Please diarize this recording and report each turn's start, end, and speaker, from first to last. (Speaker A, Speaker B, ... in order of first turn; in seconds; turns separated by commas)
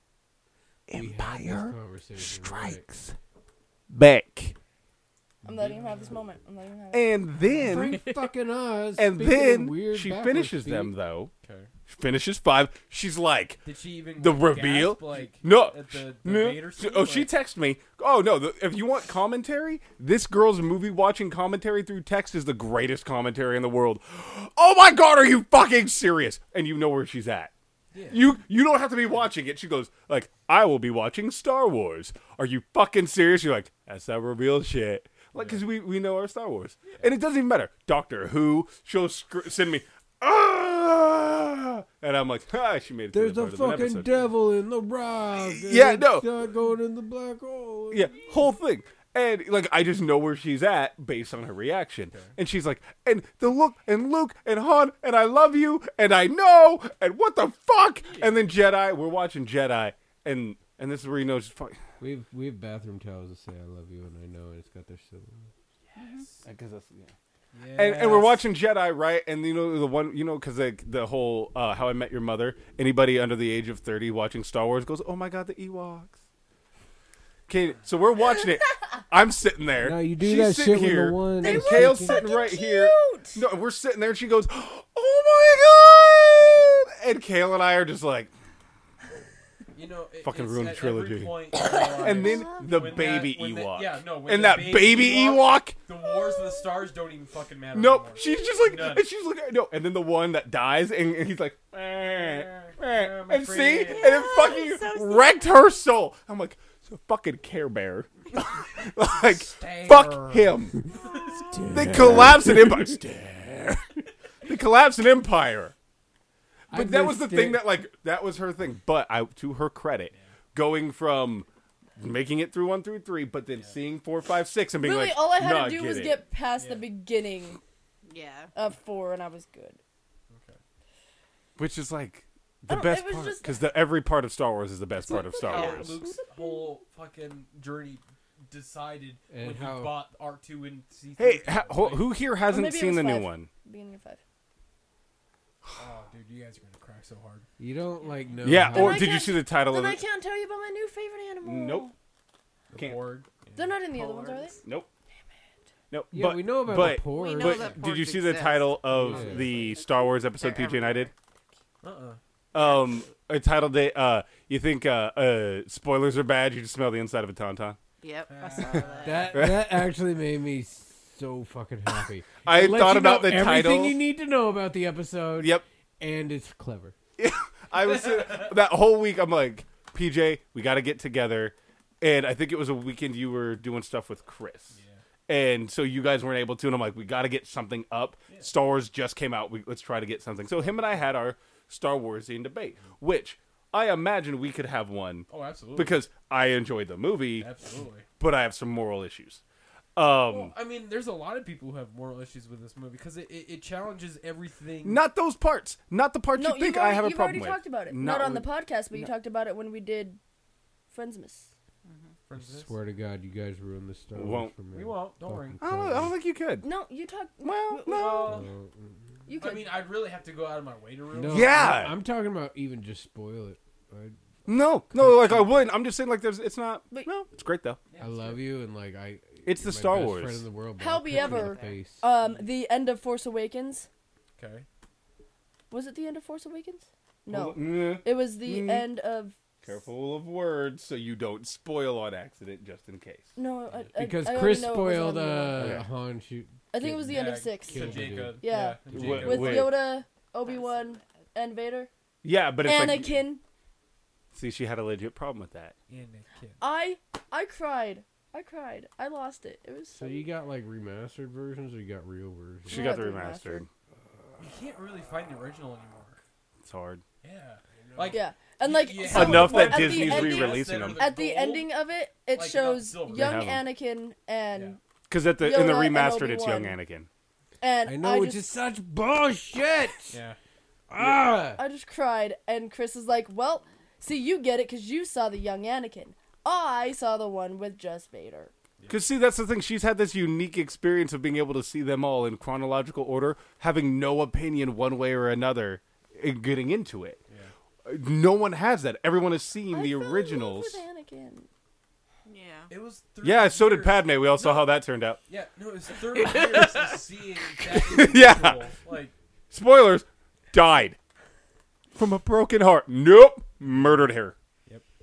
Speaker A: 0.9-3.2, Speaker B: 0.9-2.8, Speaker A: 3.9-4.6, Speaker C: 5.4-7.1, Speaker D: 5.5-6.2, Speaker A: 6.9-8.0, Speaker B: 7.5-10.9, Speaker A: 9.0-11.3, Speaker D: 11.4-11.7, Speaker A: 11.9-13.6, Speaker D: 13.7-17.3, Speaker A: 14.2-27.5, Speaker D: 27.9-28.2, Speaker A: 28.1-44.1, Speaker D: 35.4-35.6, Speaker B: 43.1-48.2, Speaker A: 45.4-46.3, Speaker A: 47.9-61.8, Speaker D: 52.1-52.4, Speaker D: 58.1-58.4, Speaker B: 62.0-65.5, Speaker D: 65.9-66.5, Speaker A: 66.5-67.1, Speaker D: 67.5-68.5, Speaker A: 67.8-76.2, Speaker A: 77.5-88.3, Speaker B: 79.8-82.2, Speaker C: 81.4-83.4, Speaker D: 89.8-99.1, Speaker A: 90.2-91.4, Speaker A: 92.0-95.8, Speaker C: 92.0-92.3, Speaker A: 97.7-110.8, Speaker D: 102.0-104.2, Speaker E: 103.8-105.6, Speaker D: 109.3-111.5, Speaker B: 111.5-113.0, Speaker A: 111.7-113.8, Speaker A: 114.4-115.7, Speaker B: 116.7-117.7, Speaker A: 116.7-126.2, Speaker C: 124.8-127.6, Speaker D: 126.6-126.9, Speaker E: 128.1-128.5, Speaker C: 128.6-129.8, Speaker D: 130.3-130.6, Speaker A: 131.6-136.0, Speaker C: 132.7-133.6, Speaker D: 135.1-142.1, Speaker C: 135.4-136.7, Speaker E: 135.5-135.8, Speaker B: 139.3-140.0, Speaker A: 141.2-143.5, Speaker C: 142.5-144.2, Speaker D: 145.8-147.5, Speaker B: 147.6-149.1, Speaker A: 148.4-150.0, Speaker C: 148.7-151.9, Speaker A: 151.4-151.9, Speaker D: 152.7-153.9, Speaker A: 152.8-153.0, Speaker C: 153.6-154.6, Speaker A: 154.6-154.9, Speaker A: 155.9-161.1, Speaker B: 156.1-157.8, Speaker E: 157.1-161.1, Speaker B: 158.9-159.5, Speaker D: 161.8-162.2, Speaker A: 162.5-167.8, Speaker E: 162.6-162.9, Speaker E: 168.0-169.4, Speaker D: 168.3-169.3, Speaker B: 169.0-176.9, Speaker A: 169.3-169.9, Speaker A: 172.4-174.0, Speaker A: 175.4-175.6, Speaker A: 177.2-197.5, Speaker D: 177.8-178.6, Speaker D: 184.7-185.0, Speaker D: 195.3-196.0, Speaker D: 197.4-198.1, Speaker A: 198.2-199.4, Speaker A: 200.0-200.5, Speaker D: 200.3-205.0, Speaker A: 204.8-209.1, Speaker C: 206.3-210.2, Speaker C: 210.9-211.5, Speaker E: 211.9-212.1, Speaker D: 212.3-212.7, Speaker B: 212.4-216.1, Speaker A: 214.1-214.5, Speaker D: 214.7-215.6, Speaker A: 215.6-216.7, Speaker C: 216.6-218.3, Speaker A: 217.4-218.4, Speaker D: 217.9-218.5, Speaker B: 218.3-219.0, Speaker C: 219.3-219.8, Speaker D: 219.4-221.8, Speaker B: 221.1-224.2, Speaker A: 221.3-222.0, Speaker A: 224.5-227.8, Speaker B: 224.9-225.6, Speaker D: 227.9-228.5, Speaker B: 228.0-232.0, Speaker A: 229.4-230.4, Speaker C: 230.8-233.9, Speaker E: 231.1-231.8, Speaker D: 232.2-232.5, Speaker D: 234.4-234.7, Speaker C: 235.7-239.4, Speaker A: 237.3-238.9, Speaker A: 239.6-243.3, Speaker C: 243.4-245.8, Speaker B: 244.0-248.4, Speaker A: 245.6-245.9, Speaker C: 246.7-251.9, Speaker D: 247.1-249.8, Speaker A: 248.9-249.8, Speaker E: 250.4-251.2, Speaker A: 252.2-253.2, Speaker C: 252.6-253.4, Speaker A: 254.3-255.7, Speaker D: 255.9-256.6, Speaker C: 256.6-260.2, Speaker B: 259.9-262.9, Speaker A: 262.7-263.7, Speaker C: 262.7-263.7, Speaker D: 264.4-266.2, Speaker A: 266.6-267.0, Speaker D: 267.2-271.7, Speaker C: 268.0-274.8, Speaker A: 269.1-271.1, Speaker D: 272.3-273.4, Speaker A: 273.1-273.6, Speaker A: 275.1-277.1, Speaker C: 275.4-276.8, Speaker C: 277.6-278.4, Speaker B: 277.8-280.2, Speaker D: 280.1-280.4, Speaker B: 280.9-281.6, Speaker C: 281.6-288.5, Speaker A: 288.9-297.2, Speaker D: 297.3-297.5, Speaker A: 297.9-300.8, Speaker C: 299.7-301.5, Speaker E: 302.3-302.7, Speaker D: 302.7-304.7, Speaker A: 303.2-305.2, Speaker D: 305.3-309.1, Speaker E: 306.2-306.6, Speaker A: 307.6-308.6, Speaker A: 309.5-311.0, Speaker A: 311.9-314.4